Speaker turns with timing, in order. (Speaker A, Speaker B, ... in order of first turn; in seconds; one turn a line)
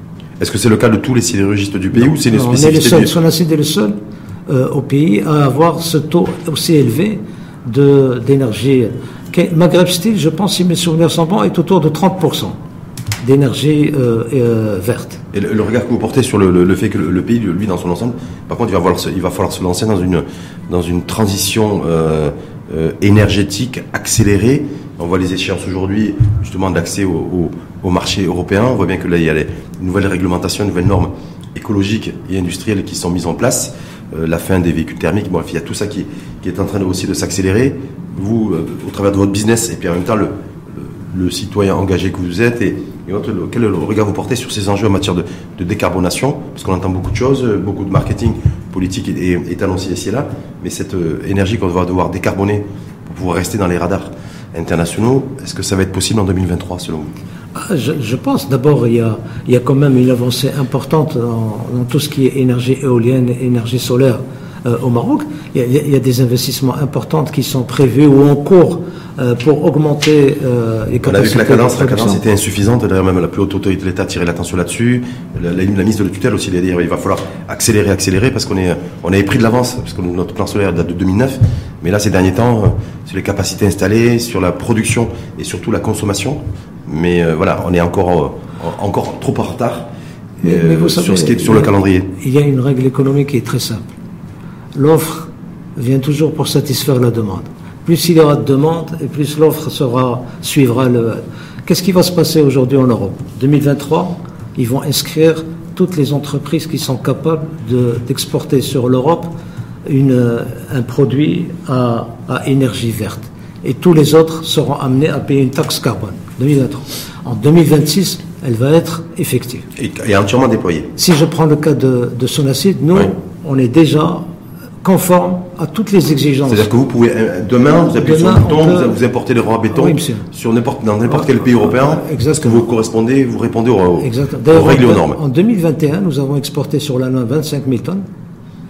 Speaker A: 0.4-3.1
Speaker B: 2.1-4.0
Speaker B: 4.5-12.6
Speaker B: 13.2-15.2
Speaker A: 15.3-57.1
Speaker B: 57.5-72.2
Speaker A: 71.0-89.9
Speaker A: 90.4-92.1
Speaker B: 90.4-93.9
Speaker B: 94.7-109.3
Speaker B: 109.8-119.7
Speaker A: 119.8-120.9
Speaker B: 121.0-124.2
Speaker B: 124.8-126.7
Speaker A: 126.5-135.2
Speaker B: 128.0-129.0
Speaker B: 129.7-130.3
Speaker B: 131.1-132.7
Speaker B: 134.0-138.0